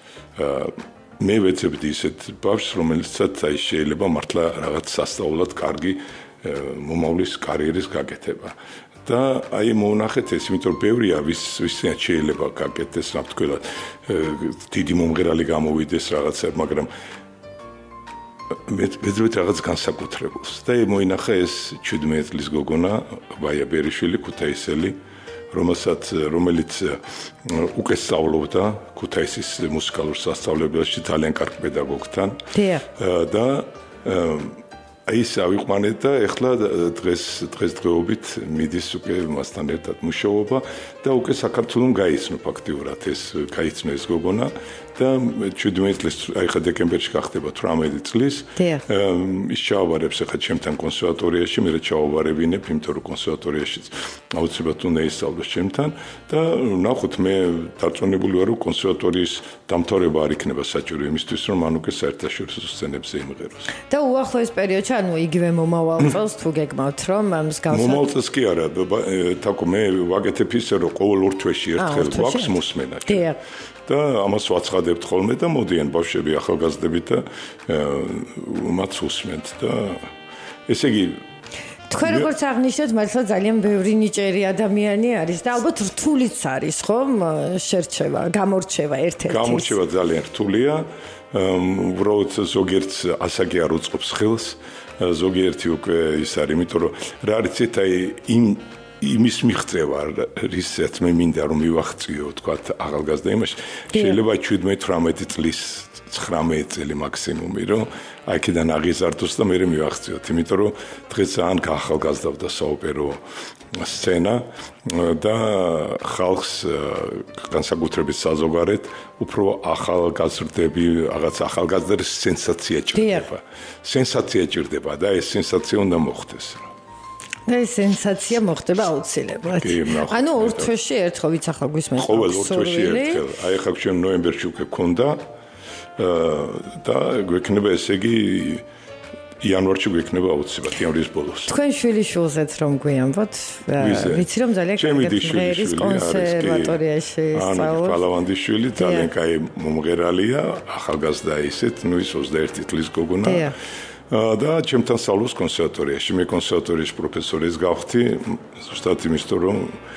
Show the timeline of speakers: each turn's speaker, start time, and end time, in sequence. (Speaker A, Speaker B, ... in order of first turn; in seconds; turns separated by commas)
Speaker A: 0.3-16.9, Speaker A: 18.7-25.0, Speaker A: 25.5-32.4, Speaker B: 32.5-32.8, Speaker A: 33.0-63.7, Speaker B: 48.6-48.8, Speaker B: 63.9-68.1, Speaker A: 67.7-73.3, Speaker B: 71.8-73.4, Speaker A: 73.8-80.1, Speaker A: 80.7-81.2, Speaker B: 81.9-89.8, Speaker A: 82.0-82.3, Speaker A: 89.3-113.2, Speaker B: 103.9-104.2, Speaker A: 113.7-126.7, Speaker B: 122.9-123.2, Speaker B: 127.5-133.2, Speaker A: 129.5-130.7, Speaker A: 132.0-135.2, Speaker A: 136.0-138.6, Speaker A: 139.4-141.5, Speaker B: 141.5-148.0, Speaker A: 143.8-146.8, Speaker A: 147.3-153.5, Speaker B: 148.8-149.1, Speaker B: 153.2-153.5, Speaker A: 154.1-159.8